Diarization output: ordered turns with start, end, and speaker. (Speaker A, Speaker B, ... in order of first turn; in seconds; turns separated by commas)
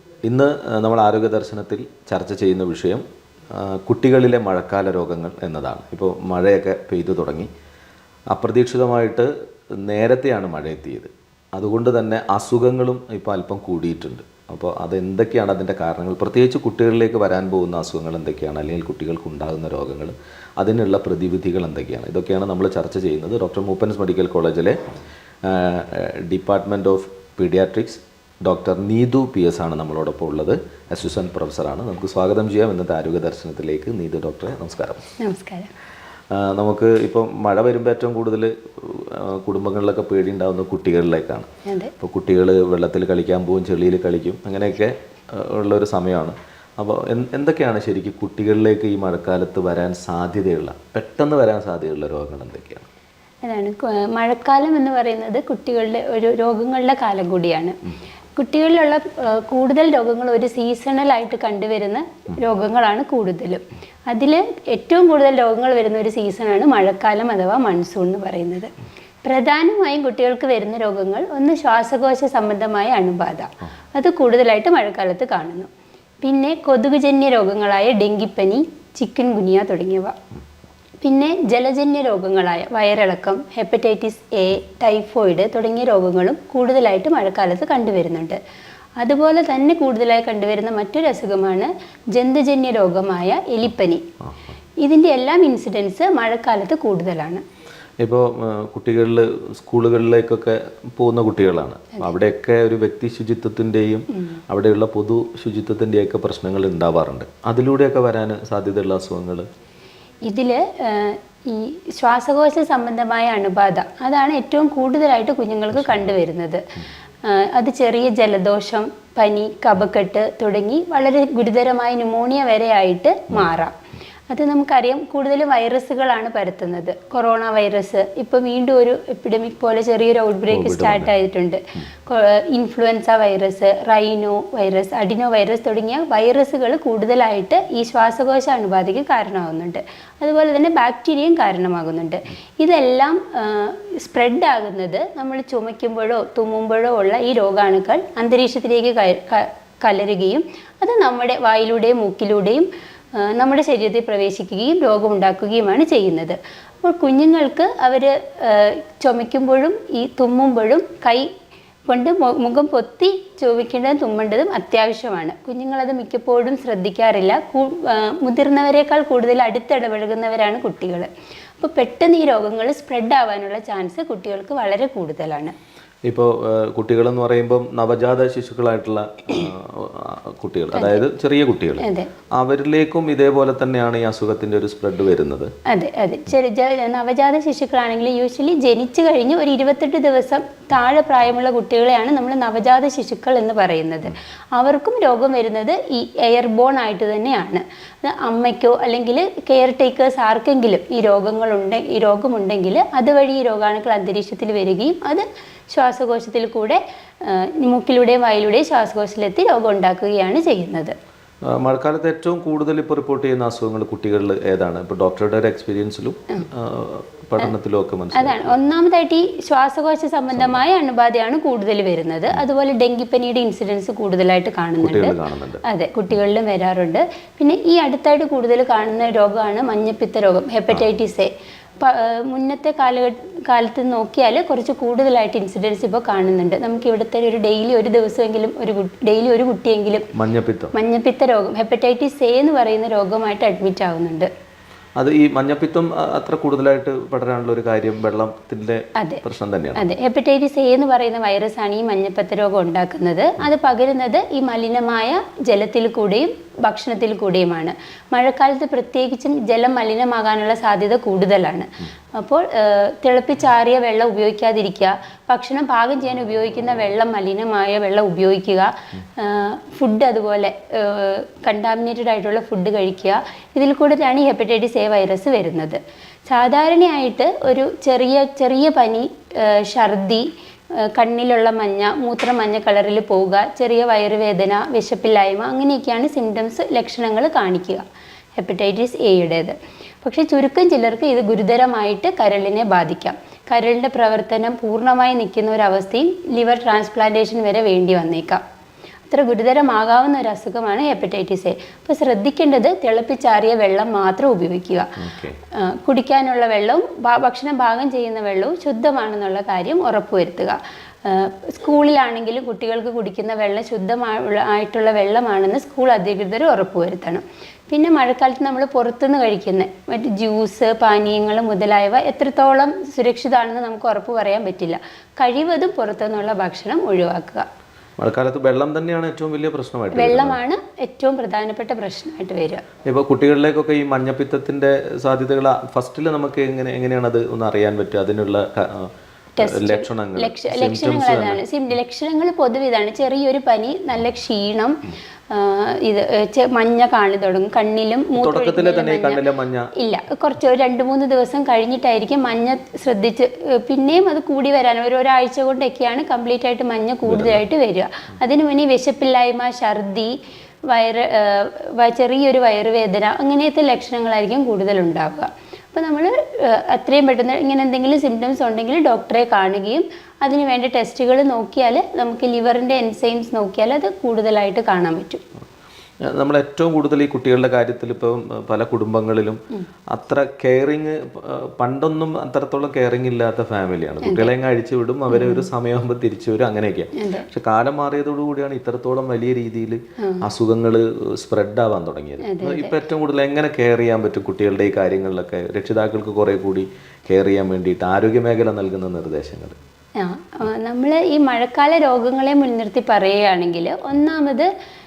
Speaker A: 0.2-7.5, Speaker A: 8.3-24.8, Speaker A: 25.4-35.1, Speaker B: 35.2-35.7, Speaker A: 36.3-52.9, Speaker B: 41.6-41.9, Speaker B: 53.4-57.8, Speaker B: 58.3-68.7, Speaker B: 69.2-75.7, Speaker B: 76.2-80.1, Speaker B: 81.0-88.4, Speaker B: 89.0-94.0, Speaker B: 94.8-97.4, Speaker A: 98.0-109.5, Speaker B: 110.2-116.6, Speaker B: 117.2-123.8, Speaker B: 124.3-161.3, Speaker A: 130.5-131.1, Speaker B: 161.9-175.5, Speaker A: 176.1-185.5, Speaker B: 180.7-181.0, Speaker B: 181.8-182.1, Speaker B: 185.7-210.9, Speaker A: 211.5-218.6, Speaker B: 218.1-240.1, Speaker A: 224.8-225.6, Speaker A: 240.1-240.7, Speaker B: 240.7-244.3, Speaker A: 245.0-249.9, Speaker B: 249.0-249.2, Speaker B: 249.7-287.8, Speaker B: 288.4-298.4, Speaker B: 299.1-304.9, Speaker A: 305.0-305.4, Speaker B: 305.5-327.4, Speaker A: 328.0-330.4, Speaker B: 329.9-332.6, Speaker A: 332.8-341.4, Speaker B: 339.4-349.2, Speaker A: 348.1-349.7, Speaker B: 349.7-375.2, Speaker A: 357.1-357.4, Speaker A: 376.0-379.4, Speaker A: 379.9-399.6, Speaker B: 384.0-384.3, Speaker B: 385.1-385.4, Speaker B: 386.9-387.2, Speaker B: 392.2-392.8, Speaker B: 400.0-404.5